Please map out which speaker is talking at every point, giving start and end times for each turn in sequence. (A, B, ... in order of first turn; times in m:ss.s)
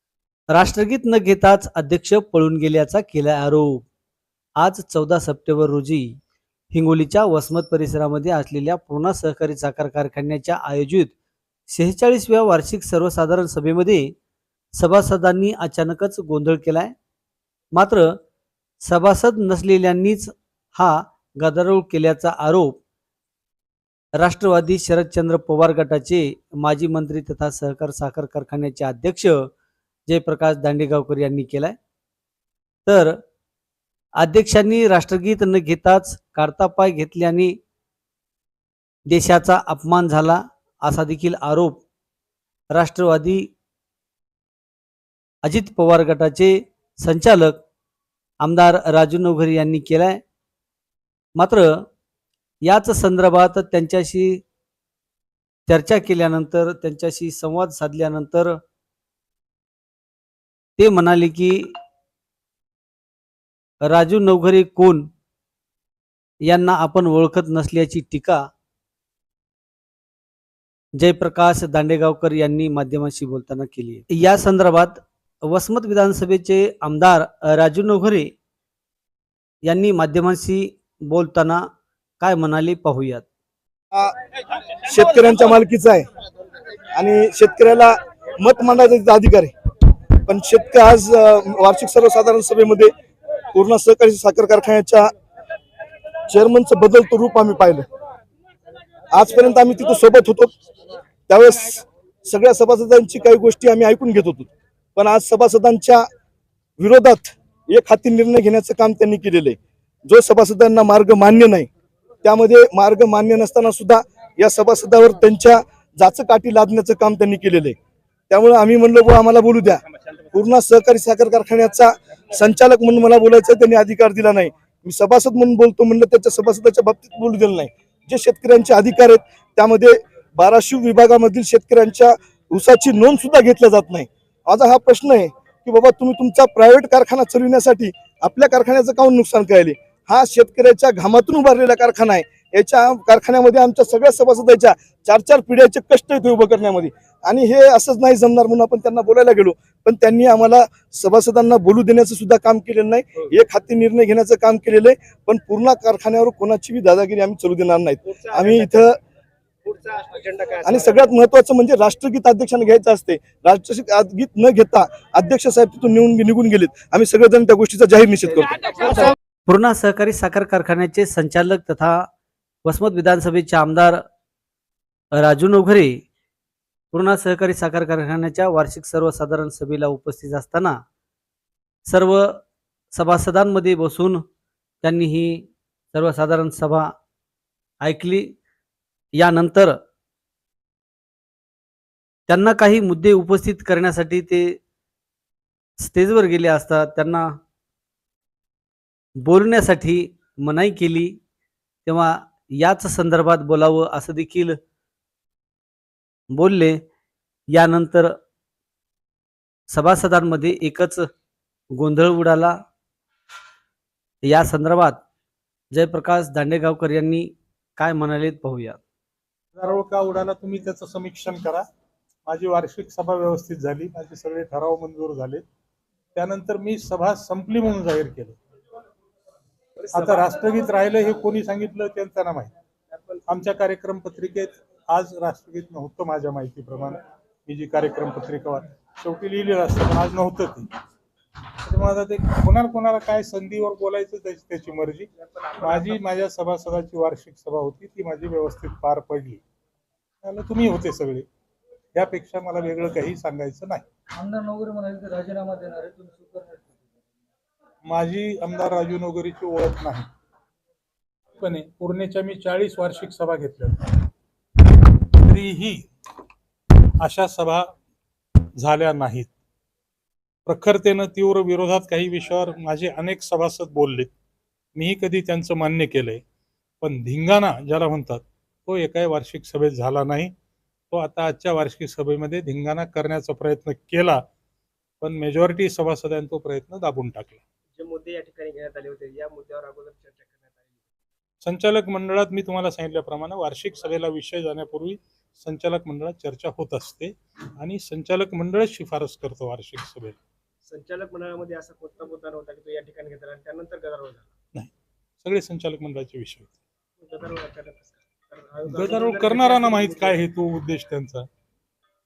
0:00.5-0:03.9 A
0:04.6-0:06.2 A
0:06.7-0:11.1 A
0:11.7-0:14.1 A
0:14.8-0:16.9 A
0:17.7-0:18.2 A
0:18.8-0:22.8 A
0:24.2-0:29.5 A
0:30.1-0:31.8 A
0:32.8-0:33.2 A
0:34.2-0:37.5 A
0:39.1-0:41.8 A
0:42.7-0:43.5 A
0:45.4-0:47.6 A
0:48.4-0:50.2 A
0:51.4-0:51.8 A
0:52.6-0:54.4 A
0:55.7-0:58.6 A
1:00.8-1:01.7 A
1:03.8-1:05.1 A
1:06.5-1:08.5 A
1:11.0-1:18.3 A
1:19.6-1:21.6 A
1:22.2-1:23.2 A
1:24.8-1:26.0 B
1:27.0-1:29.5 B
1:30.2-1:32.9 B
1:33.5-1:35.1 B
1:36.3-1:37.8 B
1:39.1-1:40.5 B
1:41.3-1:46.0 B
1:46.8-1:51.7 B
1:52.2-1:57.7 B
1:58.3-2:39.0 B
2:38.1-2:38.8 C
2:39.6-2:41.1 C
2:40.6-2:49.1 B
2:48.4-2:48.9 C
2:49.4-2:52.1 A
2:52.6-2:54.0 A
2:55.1-2:56.0 A
2:56.9-3:00.8 A
3:01.9-3:02.4 A
3:02.9-3:04.2 A
3:04.8-3:06.9 A
3:07.8-3:08.3 A
3:09.2-3:09.7 A
3:12.3-3:14.6 A
3:15.8-3:17.3 A
3:19.2-3:21.1 A
3:21.8-3:24.6 A
3:26.3-3:26.8 A
3:27.5-3:28.1 A
3:29.7-3:31.0 A
3:31.8-3:32.6 A
3:34.2-3:35.0 A
3:35.7-3:38.8 A
3:39.6-3:41.6 D
3:42.2-3:45.4 D
3:46.1-3:48.4 D
3:49.8-3:50.3 C
3:49.9-3:52.5 D
3:52.9-3:53.2 C
3:53.3-4:00.7 D
4:01.6-4:09.4 D
4:05.1-4:06.2 C
4:10.2-4:11.3 D
4:11.9-4:13.8 D
4:14.1-4:16.7 E
4:17.8-4:20.1 D
4:21.4-4:24.0 D
4:25.1-4:25.8 D
4:27.0-4:27.7 D
4:28.6-4:29.3 D
4:30.4-4:34.1 D
4:34.7-4:36.2 D
4:36.8-4:40.3 D
4:40.9-4:44.2 D
4:45.0-4:47.4 D
4:47.8-4:50.8 C
4:51.4-5:00.2 D
5:00.6-5:04.3 C
5:04.5-5:06.5 D
5:07.0-5:10.2 C
5:08.7-5:11.3 D